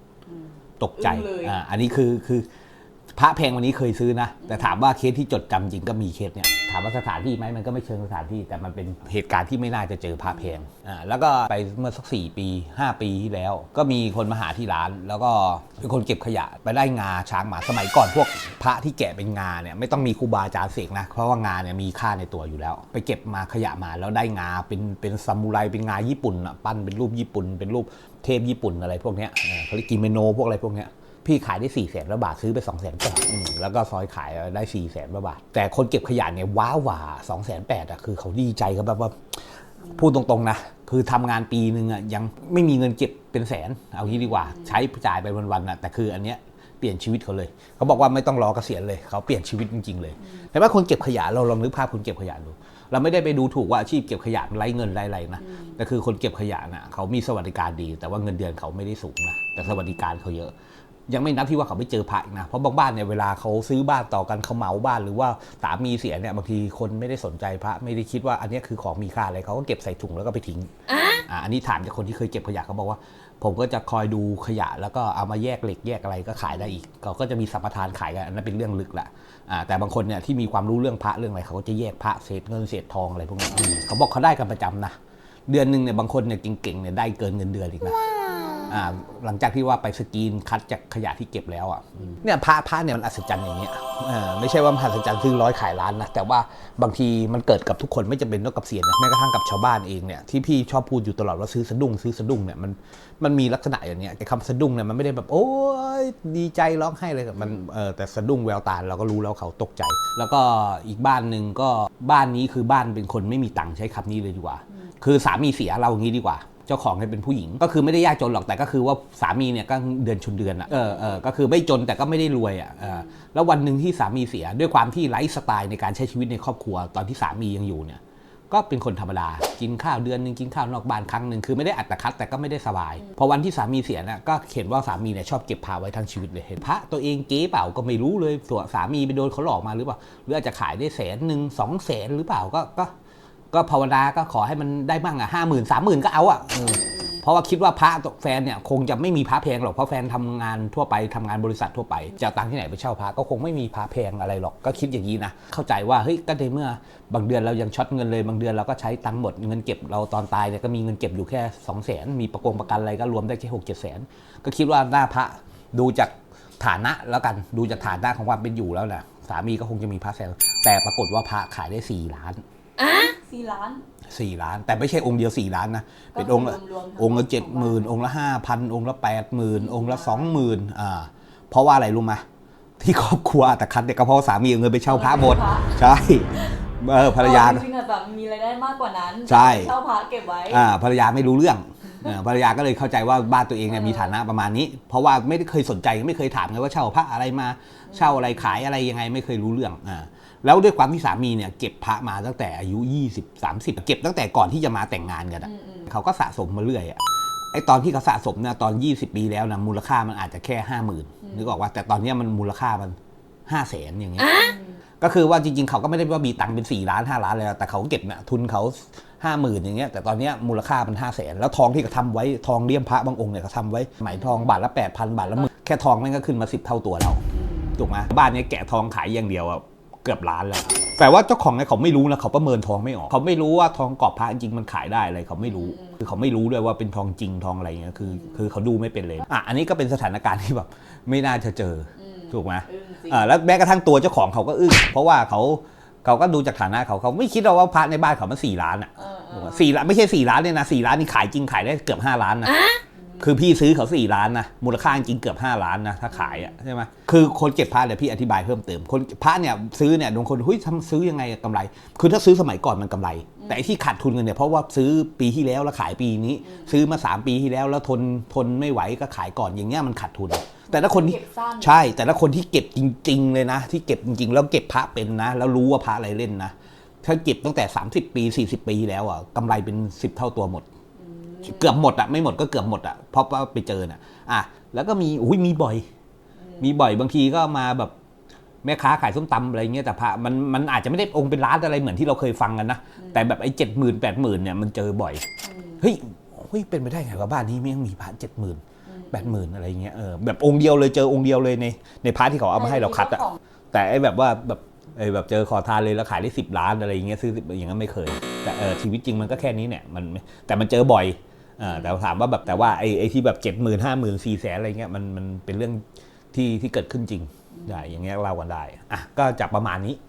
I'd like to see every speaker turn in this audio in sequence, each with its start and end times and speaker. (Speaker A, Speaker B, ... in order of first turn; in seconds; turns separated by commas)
Speaker A: 0.2-1.5, Speaker B: 0.8-2.5, Speaker B: 3.1-39.2, Speaker A: 4.4-4.7, Speaker A: 10.3-10.5, Speaker B: 39.9-60.5, Speaker A: 44.1-44.7, Speaker A: 55.4-55.8, Speaker B: 61.1-70.7, Speaker A: 70.9-71.2, Speaker B: 71.2-85.0, Speaker B: 85.5-88.0, Speaker A: 88.3-88.7, Speaker B: 88.7-128.0, Speaker A: 92.0-92.2, Speaker A: 120.7-121.2, Speaker A: 122.8-123.1, Speaker B: 128.5-142.9, Speaker B: 143.5-172.4, Speaker A: 146.7-147.2, Speaker A: 162.4-162.7, Speaker A: 172.8-173.8, Speaker B: 174.1-182.2, Speaker A: 176.1-177.9, Speaker A: 179.5-180.3, Speaker B: 182.8-187.7, Speaker A: 184.8-185.8, Speaker A: 186.3-190.6, Speaker B: 189.2-189.7, Speaker B: 190.5-207.0, Speaker A: 193.7-194.1, Speaker A: 197.9-198.4, Speaker A: 205.4-205.9, Speaker B: 207.5-212.9, Speaker A: 211.2-211.5, Speaker B: 213.5-227.2, Speaker A: 214.2-214.8, Speaker A: 227.3-227.8, Speaker B: 227.8-252.6, Speaker A: 235.4-236.0, Speaker A: 238.0-238.4, Speaker A: 241.9-243.3, Speaker A: 249.0-249.7, Speaker A: 252.9-253.4, Speaker B: 253.2-280.6, Speaker A: 256.1-256.5, Speaker A: 266.4-266.8, Speaker A: 270.7-271.8, Speaker A: 281.0-281.7, Speaker B: 281.4-285.8, Speaker A: 286.4-286.7, Speaker B: 286.6-287.9, Speaker B: 288.6-295.2, Speaker A: 293.0-293.2, Speaker A: 295.4-295.8, Speaker B: 295.8-298.6, Speaker A: 298.8-299.4, Speaker B: 299.1-315.8, Speaker A: 302.5-303.4, Speaker A: 311.6-311.9, Speaker A: 312.5-312.7, Speaker B: 316.3-320.0, Speaker A: 317.5-317.9